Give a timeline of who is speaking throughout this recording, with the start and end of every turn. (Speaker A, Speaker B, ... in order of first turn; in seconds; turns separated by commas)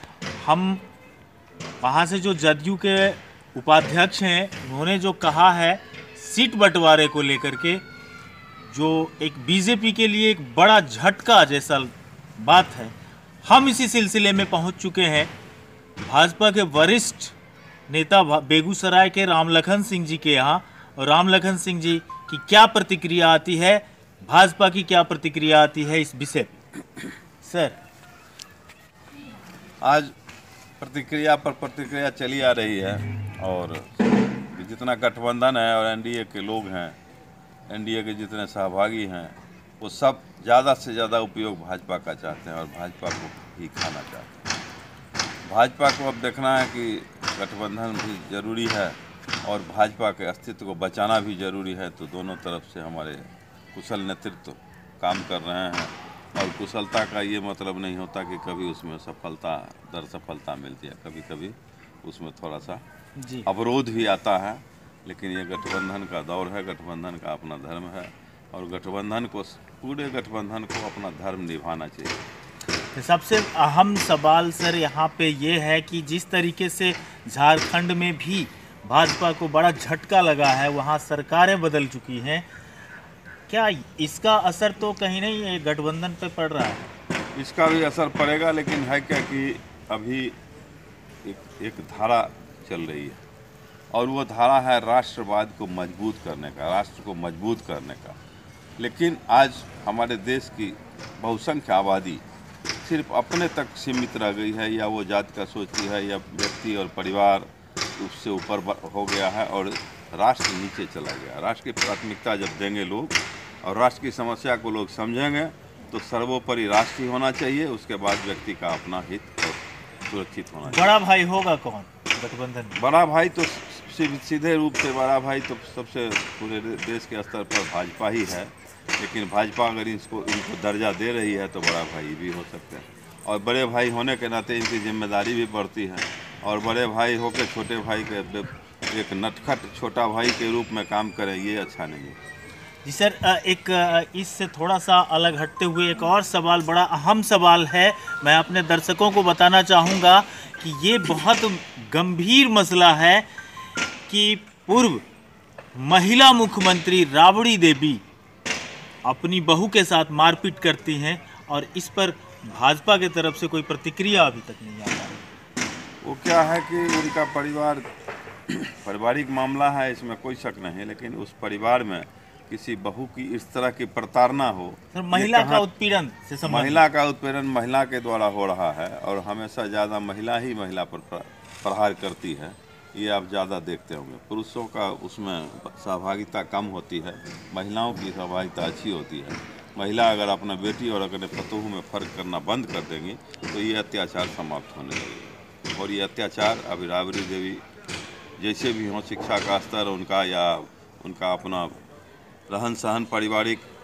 Speaker A: 0.3-0.8, Speaker A: 1.8-7.8, Speaker A: 8.7-15.3, Speaker A: 16.0-17.3, Speaker A: 17.9-26.5, Speaker A: 27.4-27.8, Speaker B: 29.8-30.1, Speaker B: 30.8-37.0, Speaker B: 37.7-44.4, Speaker B: 45.5-62.8, Speaker A: 63.2-63.5, Speaker B: 63.5-72.2, Speaker A: 72.9-82.5, Speaker A: 83.5-86.9, Speaker B: 87.3-90.3, Speaker B: 91.2-93.2, Speaker B: 93.9-98.2, Speaker B: 98.8-102.2, Speaker B: 102.8-120.9, Speaker A: 120.7-122.8, Speaker B: 122.8-142.2, Speaker A: 142.8-153.3, Speaker A: 154.1-155.0, Speaker A: 155.8-158.0, Speaker A: 159.1-165.3, Speaker B: 166.0-167.8, Speaker B: 168.5-175.6, Speaker A: 174.9-176.8, Speaker B: 176.4-197.6, Speaker B: 198.4-201.7, Speaker B: 202.5-203.7